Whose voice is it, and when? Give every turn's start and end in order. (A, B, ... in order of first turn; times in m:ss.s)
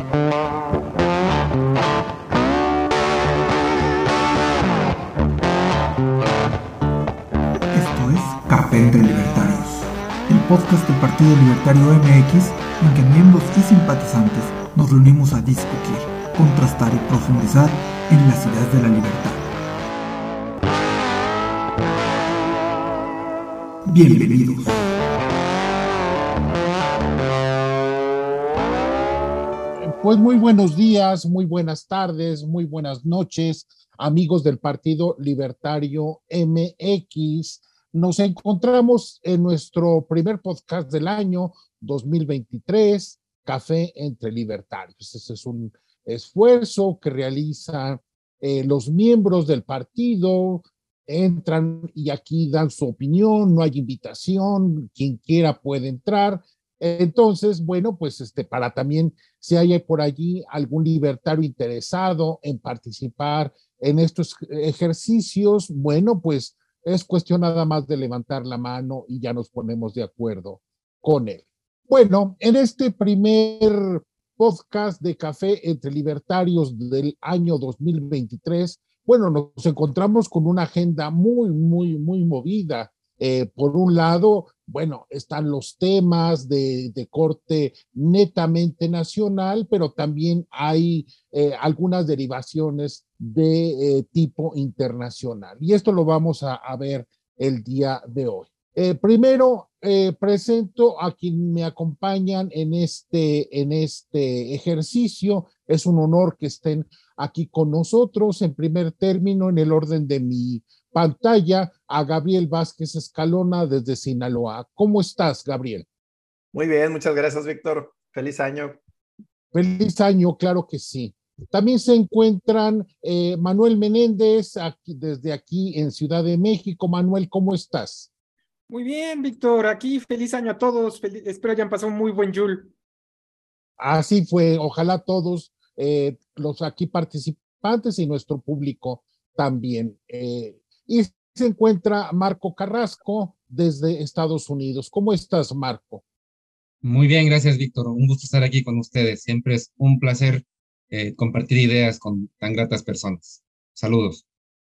0:07.7-0:19.5 A
0:23.8-0:24.8 A
0:29.8-1:55.9 B
1:56.5-1:58.8 C
1:59.5-2:08.1 B
2:08.7-2:12.7 D
2:13.8-2:26.0 B
2:26.8-2:34.2 E